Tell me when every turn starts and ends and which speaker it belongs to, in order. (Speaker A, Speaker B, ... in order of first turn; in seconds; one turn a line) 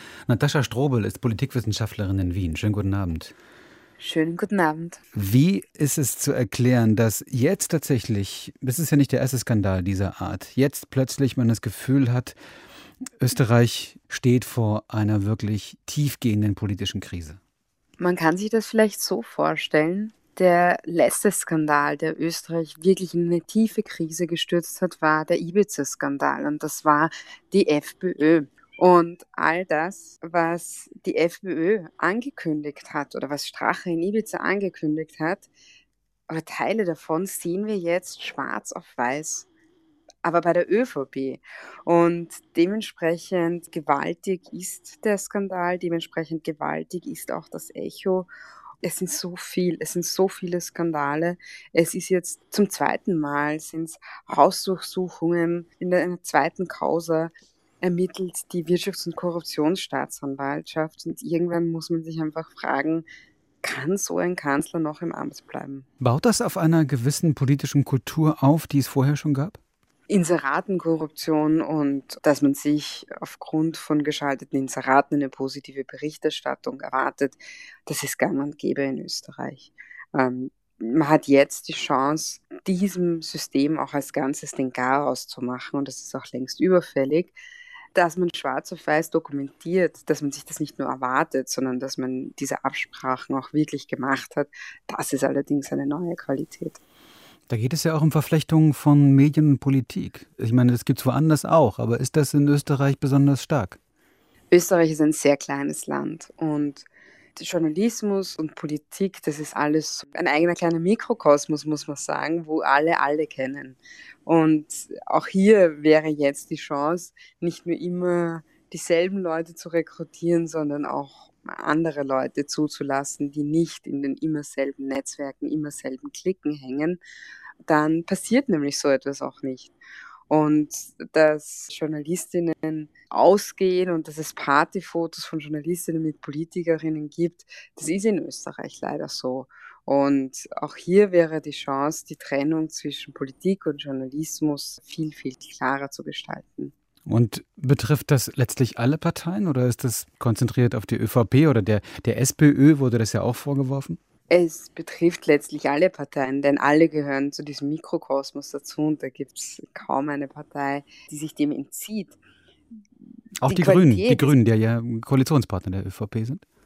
Speaker A: 0.3-3.3
Speaker B: 4.0-5.0
Speaker A: 5.1-12.3
Speaker A: 13.2-17.4
Speaker B: 18.0-35.5
Speaker B: 36.3-39.5
Speaker B: 40.2-48.3
Speaker B: 48.8-63.0
Speaker B: 63.6-65.9
Speaker A: 66.0-69.6
Speaker B: 70.1-87.3
Speaker B: 87.9-96.8
Speaker A: 97.5-103.8
Speaker B: 104.5-127.0
Speaker B: 127.7-129.7
Speaker B: 130.3-146.7
Speaker A: 147.1-154.0
Speaker B: 154.3-162.2
Speaker A: 163.4-166.4
Speaker B: 163.4-164.3